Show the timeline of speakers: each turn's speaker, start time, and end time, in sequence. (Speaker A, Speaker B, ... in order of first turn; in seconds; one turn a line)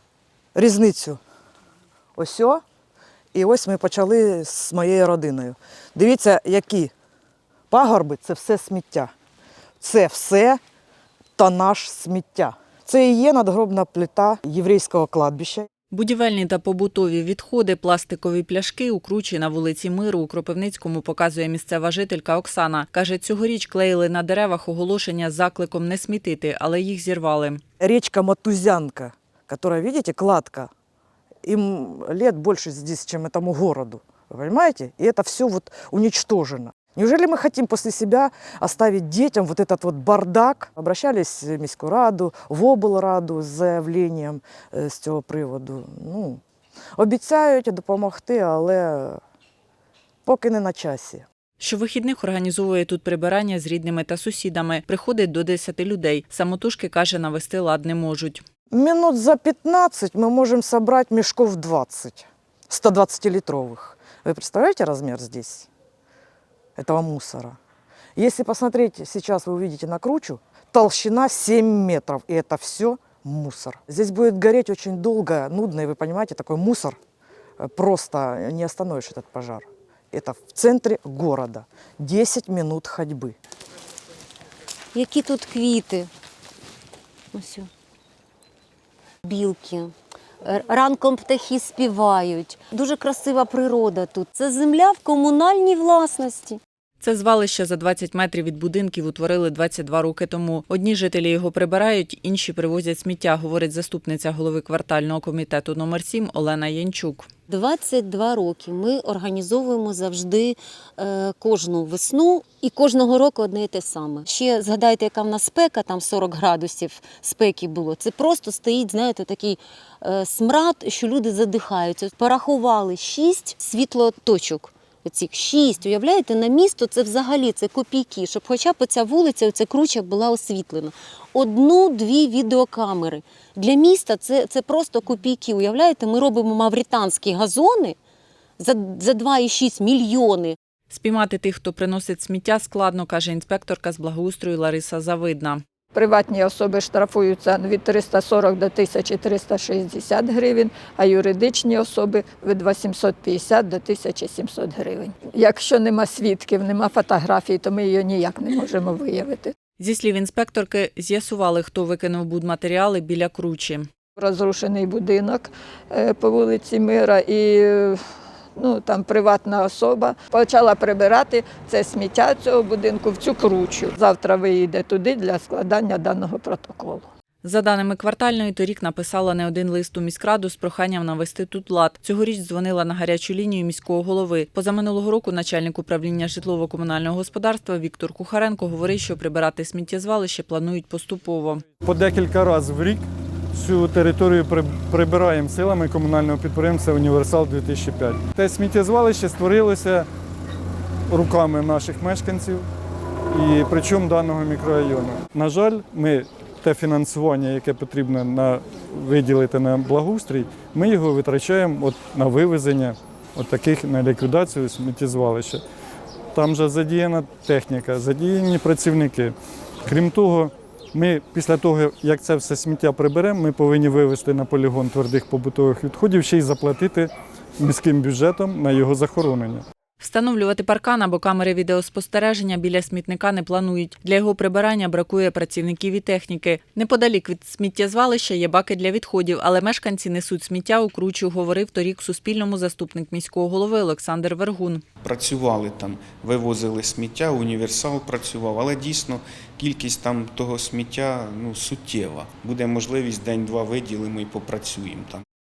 Speaker A: 0.6-1.2
Speaker A: 2.2-2.6
Speaker A: 3.3-6.9
Speaker A: 7.7-9.1
Speaker A: 9.8-10.6
Speaker A: 11.4-15.7
Speaker B: 15.9-27.6
Speaker A: 27.8-30.7
Speaker A: 31.4-46.4
Speaker A: 47.0-49.2
Speaker A: 50.3-51.3
Speaker B: 51.6-58.4
Speaker A: 58.7-65.7
Speaker A: 66.8-67.6
Speaker A: 68.2-77.0
Speaker A: 77.6-83.4
Speaker C: 84.9-86.1
Speaker C: 87.3-87.7
Speaker C: 89.2-89.9
Speaker C: 90.4-96.6
Speaker B: 97.0-107.3
Speaker C: 107.5-138.0
Speaker C: 138.6-140.6
Speaker B: 140.9-145.6
Speaker D: 145.9-159.5
Speaker B: 159.8-163.9
Speaker D: 164.2-168.0
Speaker D: 168.6-177.1
Speaker B: 177.4-191.6
Speaker E: 191.8-200.1
Speaker E: 201.1-202.7
Speaker E: 203.3-215.6
Speaker E: 216.3-219.3
Speaker E: 219.9-229.6
Speaker B: 230.0-244.8
Speaker F: 245.0-255.2